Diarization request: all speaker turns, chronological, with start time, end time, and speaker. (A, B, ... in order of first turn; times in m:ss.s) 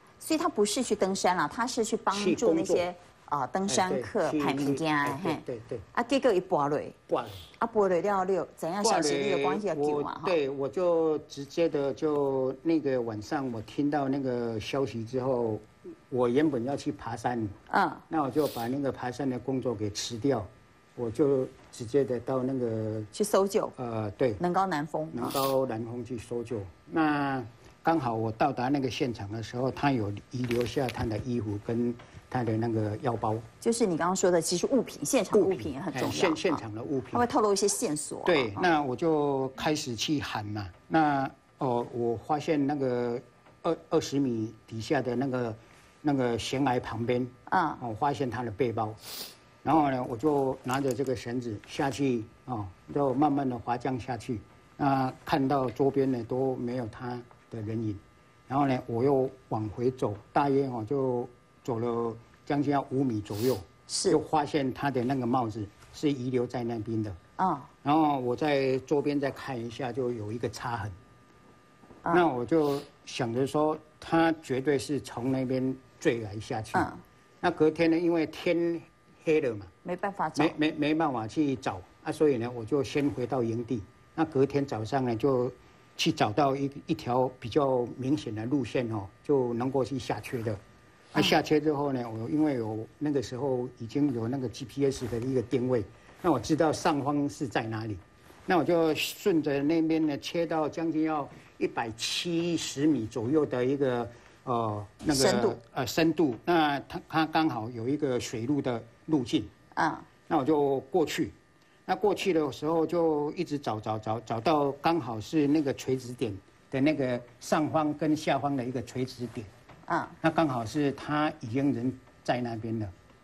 0:00.2-0:05.4 A
0:02.1-0:02.8 B
0:03.7-0:05.8 B
0:05.9-0:07.0 A
0:07.1-0:07.4 B
0:07.6-0:10.4 A
0:08.8-0:17.5 B
0:17.7-0:18.0 A
0:18.1-0:23.1 B
0:23.1-0:23.7 A
0:23.8-0:24.4 B
0:24.4-0:25.4 A
0:25.1-0:33.4 B
0:33.6-0:36.6 A
0:35.3-0:37.2 B
0:37.1-0:38.7 A
0:38.2-0:49.0 B
0:47.5-0:47.8 A
0:49.6-1:07.2 B
1:03.9-1:04.2 A
1:07.4-1:07.7 A
1:07.8-1:10.9 B
1:12.1-1:19.7 B
1:16.7-1:17.0 A
1:19.8-1:20.5 A
1:20.4-1:30.6 B
1:31.1-1:49.5 B
1:45.1-1:45.6 A
1:49.7-1:50.0 A
1:50.3-1:51.3 B
1:51.9-1:59.5 B
1:59.9-2:00.1 A
2:00.2-2:02.9 B